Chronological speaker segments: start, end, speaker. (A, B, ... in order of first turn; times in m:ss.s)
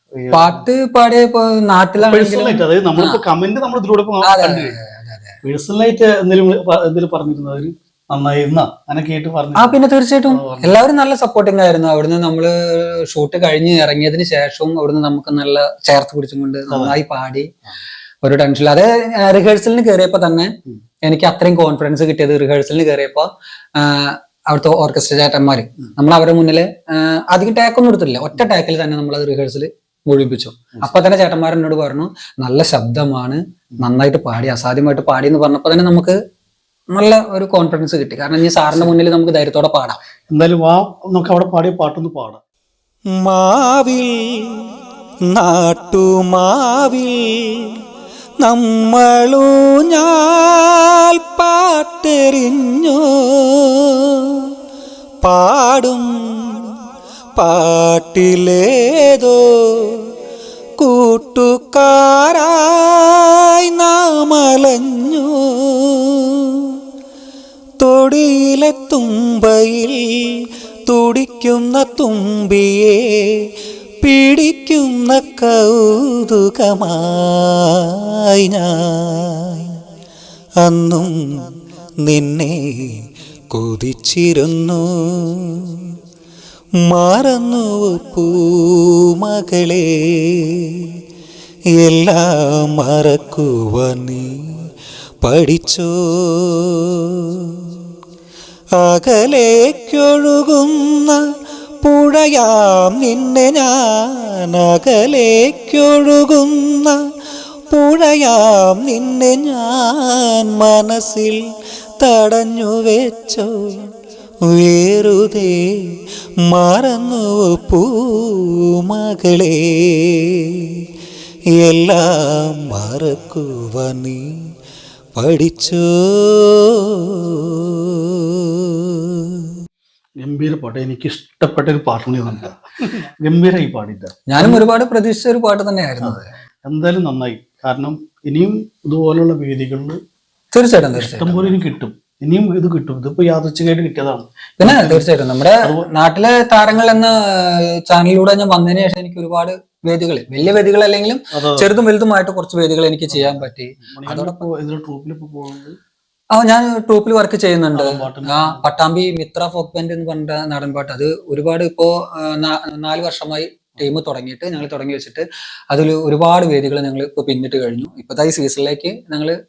0:00.2-0:00.6 A
0:00.3-0:03.2 B
0:02.0-0:04.8 A
0:04.2-0:05.4 B
0:05.4-0:09.8 A
0:09.6-0:17.5 B
0:10.3-0:10.8 A
0:18.2-0:20.5 B
0:21.0-0:36.2 B
0:36.9-0:40.0 B
0:40.3-0:42.4 A
0:43.2-0:44.6 C
0:45.3-0:47.7 C
0:48.4-0:54.1 C
0:55.2-0:56.6 C
0:57.4-1:00.0 C
1:00.8-1:06.5 C
1:07.8-1:13.5 C
1:14.0-1:17.8 C
1:18.4-1:19.7 C
1:20.6-1:21.5 C
1:22.0-1:25.8 C
1:26.9-1:30.8 C
1:31.8-1:34.3 C
1:35.2-1:37.7 C
1:38.8-1:41.2 C
1:41.8-1:47.0 C
1:47.7-1:51.4 C
1:52.0-1:53.9 C
1:54.5-1:55.9 C
1:56.5-2:00.6 C
2:01.6-2:04.2 C
2:05.1-2:07.1 C
2:10.2-2:12.6 A
2:13.2-2:14.6 A
2:14.3-2:16.3 B
2:16.0-2:20.0 A
2:20.5-2:21.5 B
2:20.9-2:25.0 A
2:24.6-2:34.4 B
2:25.6-2:25.9 A
2:34.0-2:35.6 A
2:36.3-2:49.3 B
2:37.7-2:38.6 A